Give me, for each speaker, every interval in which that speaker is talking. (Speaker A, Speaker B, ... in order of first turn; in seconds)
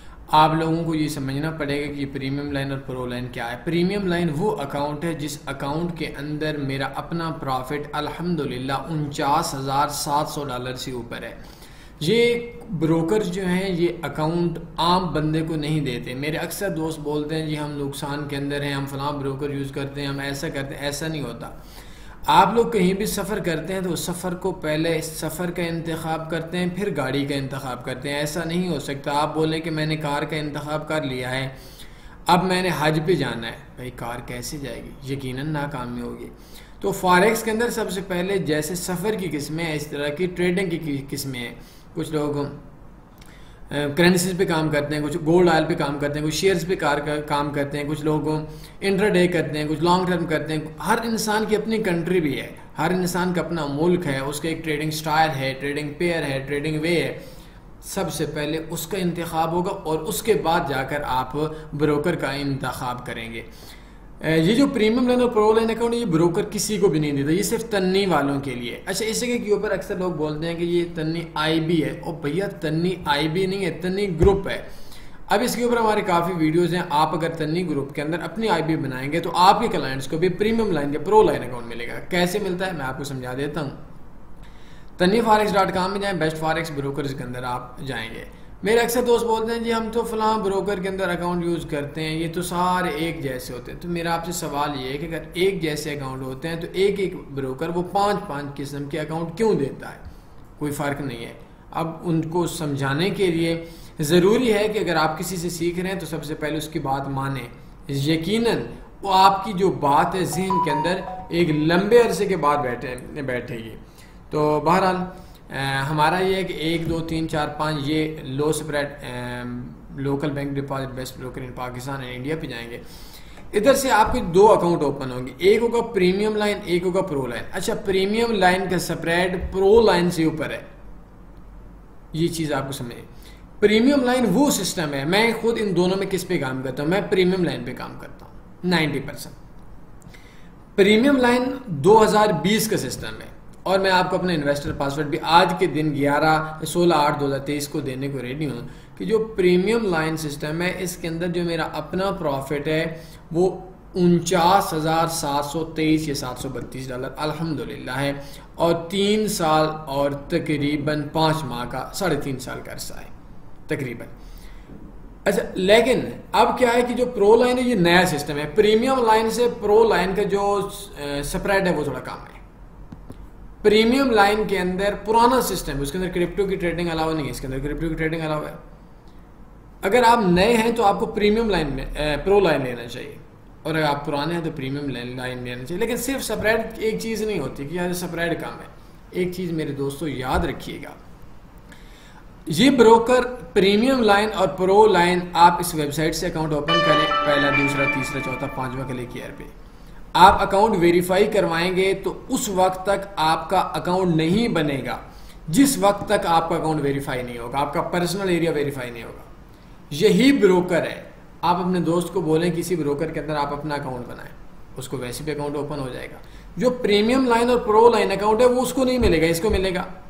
Speaker A: 0.3-11.4, 12.0-21.6, 22.3-31.5, 32.3-42.5, 43.7-57.2, 57.8-63.5, 64.2-74.7, 75.3-83.8, 85.0-100.0, 100.6-122.8, 123.5-130.7, 132.1-133.1, 133.6-139.3, 140.8-163.1, 163.7-164.1, 165.2-172.4, 173.6-178.6, 179.8-191.0, 192.4-199.5, 200.1-209.3, 209.9-219.9